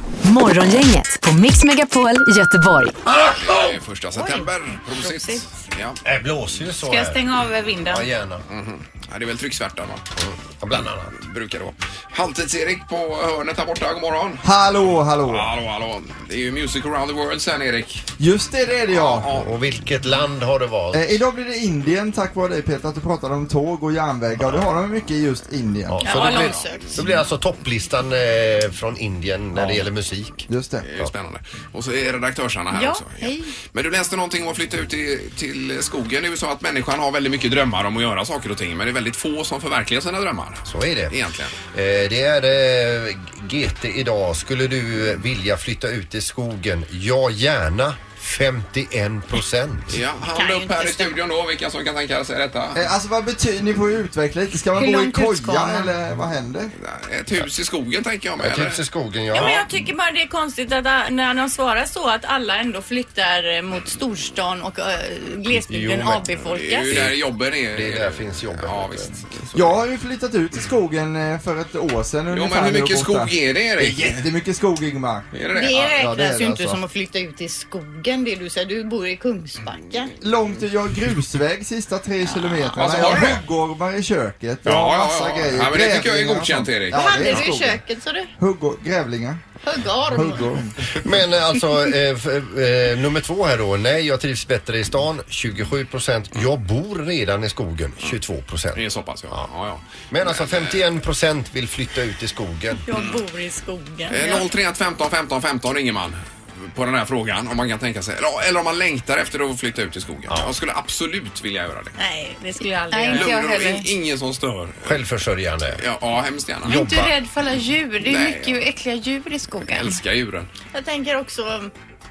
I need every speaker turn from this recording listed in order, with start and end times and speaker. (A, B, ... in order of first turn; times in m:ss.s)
0:00.2-0:03.0 A
0:03.1-0:03.8 B
0:03.2-0:06.0 C
0:04.1-0:05.6 D
0:06.0-0:07.2 B
0:06.8-0:08.1 E
0:07.8-0:08.4 B
0:08.5-0:10.0 C
0:10.2-0:11.1 B
0:11.1-0:14.4 C
0:14.4-0:15.5 F
0:15.3-0:18.0 C
0:18.2-0:19.3 F
0:18.9-0:19.5 C
0:19.3-0:21.2 B
0:20.9-0:26.1 F
0:25.9-0:30.5 B
0:26.0-0:27.0 D
0:26.1-0:26.6 C
0:30.5-0:30.8 F
0:30.8-0:41.5 C
0:32.8-0:33.2 E
0:32.8-0:33.4 D
0:40.6-0:41.1 B
0:41.7-0:50.0 B
0:49.9-0:52.8 C
0:50.3-0:51.1 D
0:52.8-0:56.7 F
0:54.7-0:55.9 D
0:56.8-0:58.8 C
0:58.4-0:59.6 B
0:59.3-1:06.9 D
1:05.6-1:06.2 B
1:06.5-1:09.8 C
1:06.9-1:07.2 B
1:07.7-1:09.1 B
1:09.5-1:15.3 F
1:12.3-1:14.3 C
1:15.3-1:15.9 C
1:15.5-1:20.1 D
1:15.9-1:16.8 F
1:20.2-1:27.8 F
1:22.3-1:22.8 D
1:22.7-1:23.4 C
1:24.6-1:27.4 C
1:26.9-1:28.3 D
1:28.4-1:29.4 F
1:29.6-1:30.5 D
1:30.1-1:30.7 F
1:31.0-1:39.5 B
1:38.7-1:40.8 C
1:40.1-1:42.8 B
1:42.9-1:44.5 D
1:44.1-1:52.0 C
1:50.3-1:50.5 B
1:52.0-1:53.3 D
1:52.6-1:53.9 E
1:53.1-1:55.0 C
1:54.8-1:55.8 B
1:55.8-1:56.8 C
1:56.6-1:57.1 B
1:56.6-2:00.0 E
1:58.0-1:58.6 C
1:59.7-2:00.5 C
2:00.7-2:01.7 D